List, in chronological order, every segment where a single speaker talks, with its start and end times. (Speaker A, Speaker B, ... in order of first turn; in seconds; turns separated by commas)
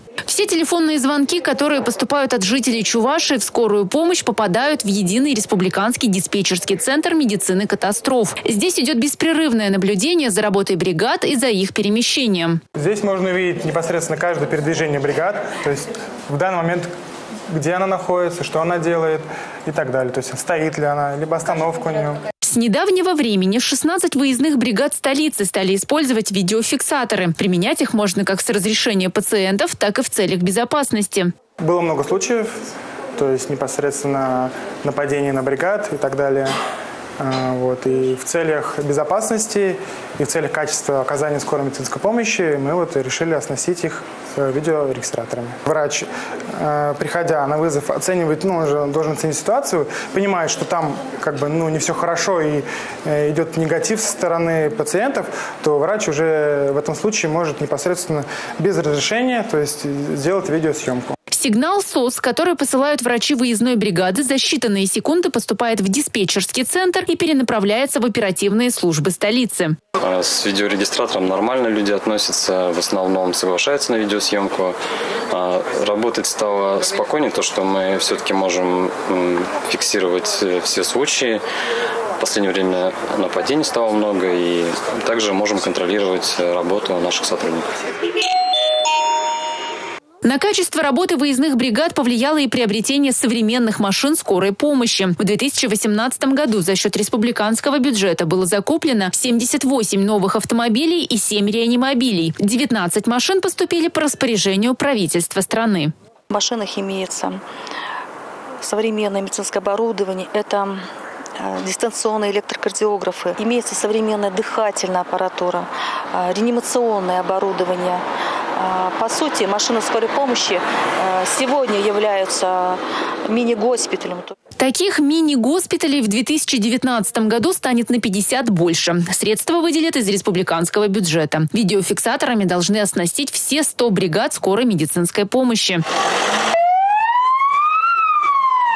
Speaker A: 0.3-12.6, Speaker B: 12.8-16.9, Speaker B: 17.5-22.2, Speaker A: 22.4-31.3, Speaker B: 31.6-32.5, Speaker B: 33.2-36.5, Speaker B: 37.2-61.1, Speaker A: 61.3-69.8, Speaker C: 70.0-74.8, Speaker C: 75.3-81.4, Speaker C: 82.2-87.7, Speaker A: 90.2-105.9, Speaker D: 106.3-107.4, Speaker D: 108.6-110.8, Speaker D: 111.4-118.0, Speaker D: 118.6-124.3, Speaker A: 124.6-135.8